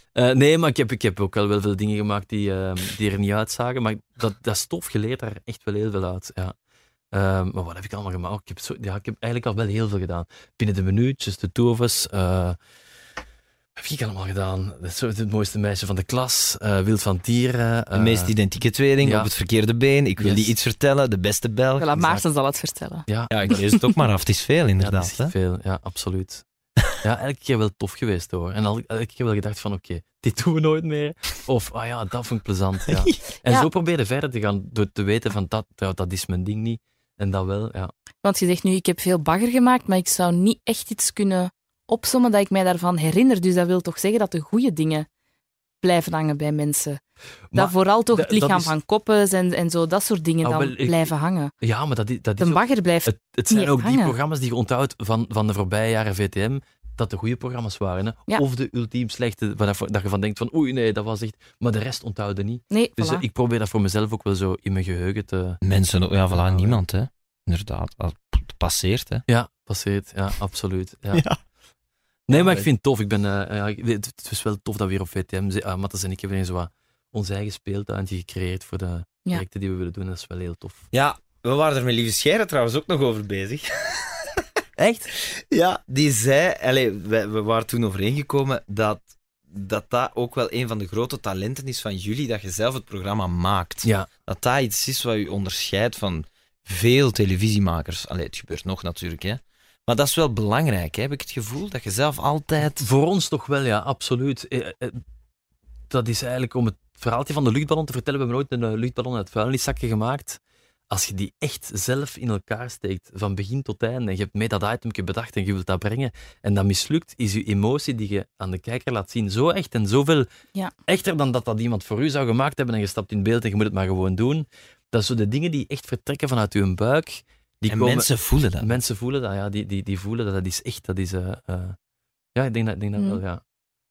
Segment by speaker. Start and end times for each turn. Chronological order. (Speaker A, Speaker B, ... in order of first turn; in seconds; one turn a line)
Speaker A: 0.1-6.5
Speaker A: 7.1-12.6
Speaker A: 13.8-18.3
Speaker B: 17.9-22.2
Speaker A: 19.0-19.3
Speaker A: 20.2-20.5
Speaker C: 21.8-24.0
Speaker A: 23.1-23.4
Speaker B: 23.3-25.3
Speaker A: 24.8-26.4
Speaker A: 27.0-37.9
Speaker B: 32.9-33.2
Speaker C: 38.2-45.1
Speaker C: 45.8-47.0
Speaker A: 47.5-48.7
Speaker C: 47.5-51.5
Speaker A: 50.4-65.6
Speaker C: 52.4-54.1
Speaker C: 62.7-63.2
Speaker B: 65.6-69.2
Speaker A: 66.3-66.8
Speaker A: 69.3-71.2
Speaker B: 71.1-71.4
Speaker A: 72.3-80.9
Speaker B: 72.3-72.6
Speaker B: 80.9-84.4
Speaker A: 84.8-85.1
Speaker B: 85.2-102.8
Speaker A: 102.8-105.0
Speaker A: 105.9-110.4
Speaker A: 110.9-120.3
Speaker A: 120.9-131.8
Speaker B: 127.7-128.7
Speaker A: 132.3-133.4